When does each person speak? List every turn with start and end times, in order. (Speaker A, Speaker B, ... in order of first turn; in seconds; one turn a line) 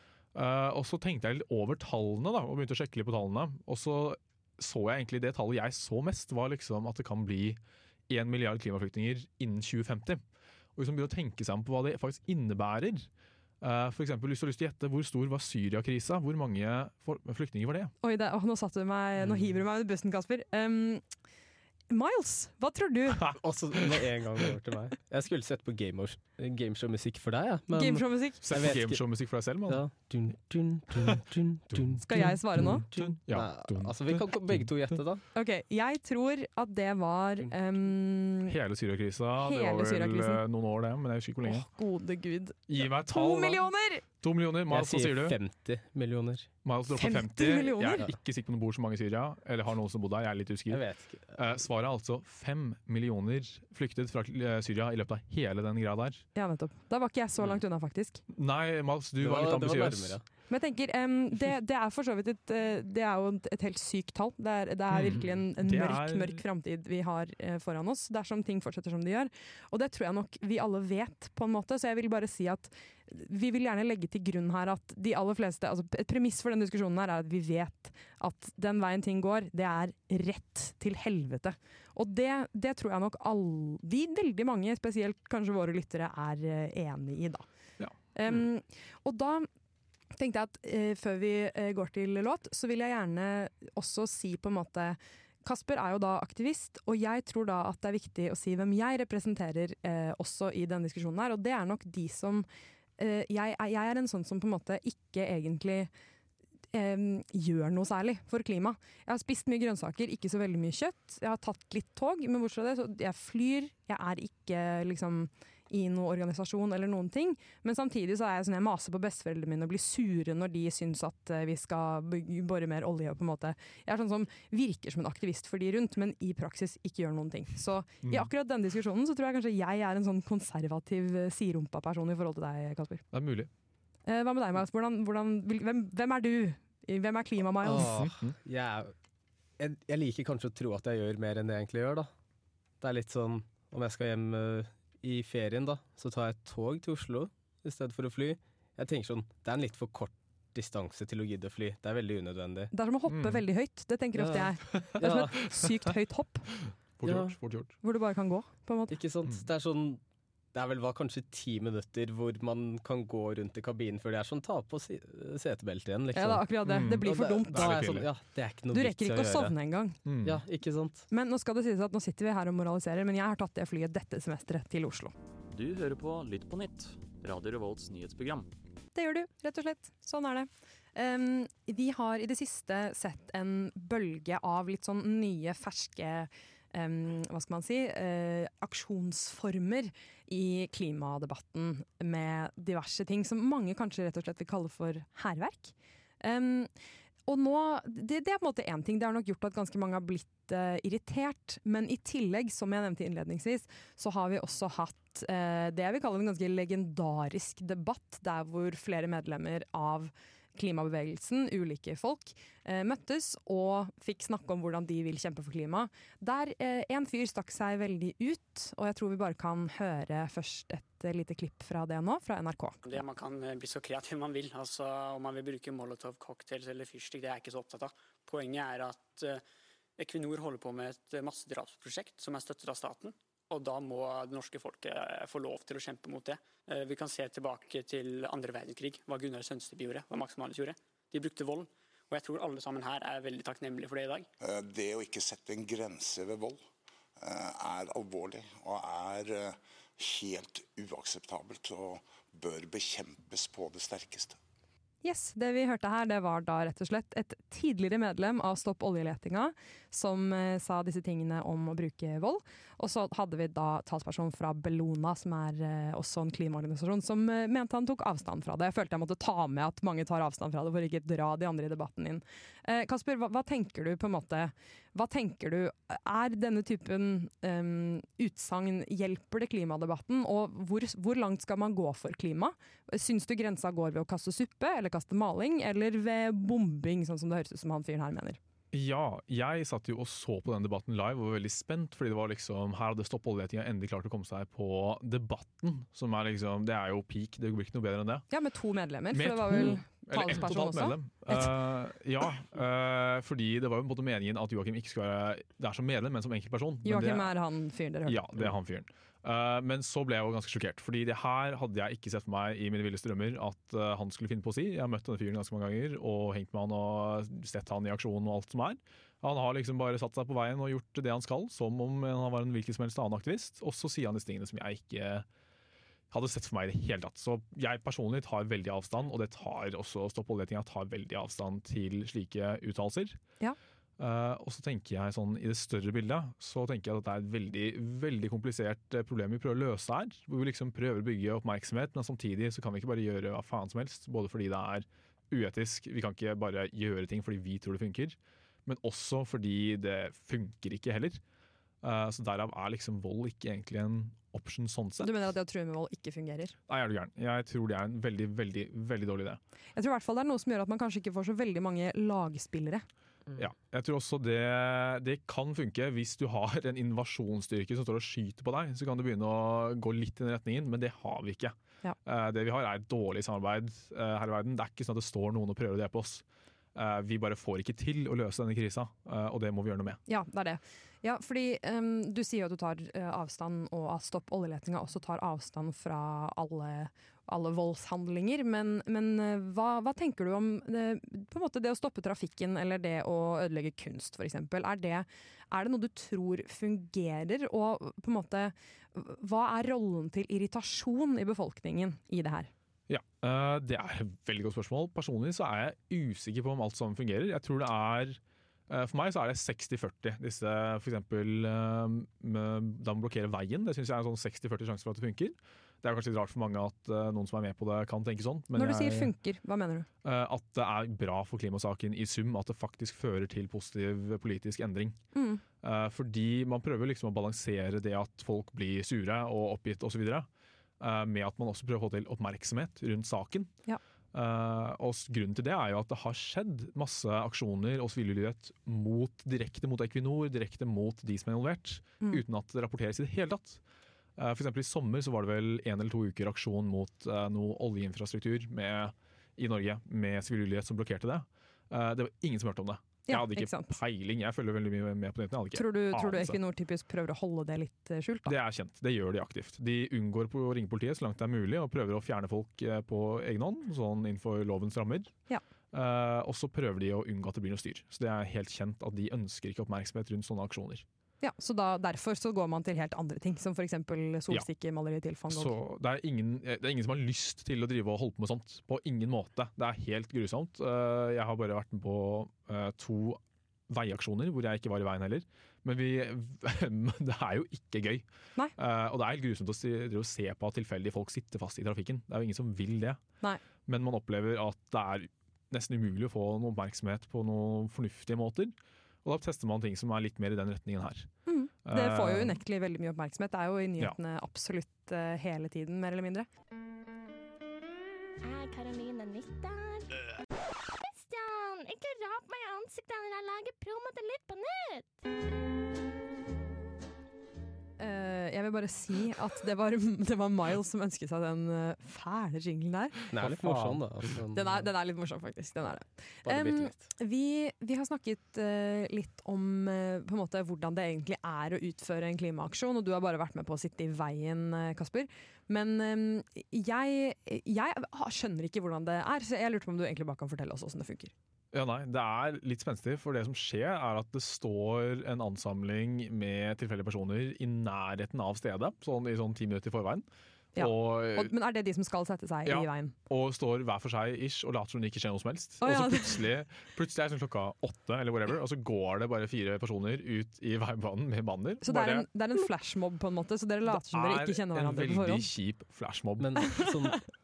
Speaker A: 0.3-10.2
Speaker A: 10.8-13.1
Speaker A: 13.6-17.9
Speaker B: 18.0-21.0
Speaker B: 21.9-23.3
Speaker A: 23.1-23.4
Speaker C: 23.4-29.0
Speaker B: 27.7-28.4
Speaker A: 28.4-29.9
Speaker C: 29.7-35.2
Speaker A: 31.7-34.7
Speaker B: 32.0-32.9
Speaker B: 35.4-38.6
Speaker A: 38.5-41.7
Speaker B: 39.4-40.4
Speaker B: 41.4-44.0
Speaker A: 42.7-45.4
Speaker C: 44.7-46.5
Speaker A: 46.6-50.8
Speaker B: 47.0-48.0
Speaker C: 50.7-51.4
Speaker A: 51.3-56.2
Speaker B: 56.4-58.2
Speaker A: 58.3-60.2
Speaker C: 59.2-60.2
Speaker B: 60.5-87.5
Speaker A: 64.9-66.4
Speaker A: 87.8-88.4
Speaker B: 88.2-89.5
Speaker B: 90.2-102.5
Speaker B: 103.0-105.9
Speaker B: 106.7-133.0
Speaker A: 128.0-128.3
Speaker A: 133.1-133.5
Speaker B: 134.1-137.9
Speaker C: 137.6-138.9
Speaker A: 137.8-138.3
Speaker C: 139.6-142.1
Speaker C: 142.8-152.7
Speaker B: 152.7-156.5
Speaker A: 153.1-153.4
Speaker C: 154.2-154.5
Speaker C: 155.0-155.4
Speaker A: 156.6-157.7
Speaker C: 157.0-157.3
Speaker B: 157.8-158.9
Speaker C: 158.9-160.0
Speaker C: 160.5-169.6
Speaker B: 166.2-168.0
Speaker A: 166.7-168.1
Speaker B: 168.7-170.0
Speaker A: 170.1-170.4
Speaker C: 170.2-171.1
Speaker B: 171.1-175.1
Speaker D: 175.5-178.5
Speaker B: 178.9-196.7
Speaker B: 197.3-222.8
Speaker E: 222.8-229.4
Speaker E: 230.0-244.3
Speaker F: 244.4-246.6
Speaker F: 247.2-254.4
Speaker B: 255.0-288.4
Speaker A: 288.7-298.3
Speaker B: 298.3-301.5
Speaker A: 299.1-307.3
Speaker B: 306.8-308.4
Speaker A: 308.1-325.3
Speaker A: 326.1-333.2
Speaker A: 334.0-351.2
Speaker A: 351.8-355.1
Speaker B: 355.0-356.6
Speaker A: 356.7-359.4
Speaker B: 359.8-362.9
Speaker A: 363.4-376.2
Speaker A: 376.8-380.0
Speaker B: 380.1-402.5
Speaker A: 402.9-419.1
Speaker B: 418.6-419.9
Speaker A: 420.0-425.0
Speaker B: 425.1-425.4
Speaker A: 425.6-430.3
Speaker A: 430.8-433.5
Speaker A: 434.1-443.6
Speaker A: 444.2-456.4
Speaker B: 453.1-453.7
Speaker B: 455.5-458.4
Speaker A: 458.3-465.1
Speaker A: 465.7-470.9
Speaker B: 471.2-475.5
Speaker A: 475.3-488.1
Speaker A: 488.6-493.0
Speaker A: 493.7-501.1
Speaker B: 501.3-506.3
Speaker A: 501.7-502.4
Speaker G: 508.2-510.0
Speaker G: 510.8-515.0
Speaker B: 517.8-523.1
Speaker C: 523.1-524.7
Speaker A: 523.1-523.8
Speaker B: 524.3-541.1
Speaker C: 526.3-526.8
Speaker A: 541.5-551.3
Speaker B: 550.6-552.9
Speaker A: 552.5-562.1
Speaker B: 555.6-556.2
Speaker B: 561.6-565.3
Speaker A: 563.7-566.6
Speaker C: 566.2-567.0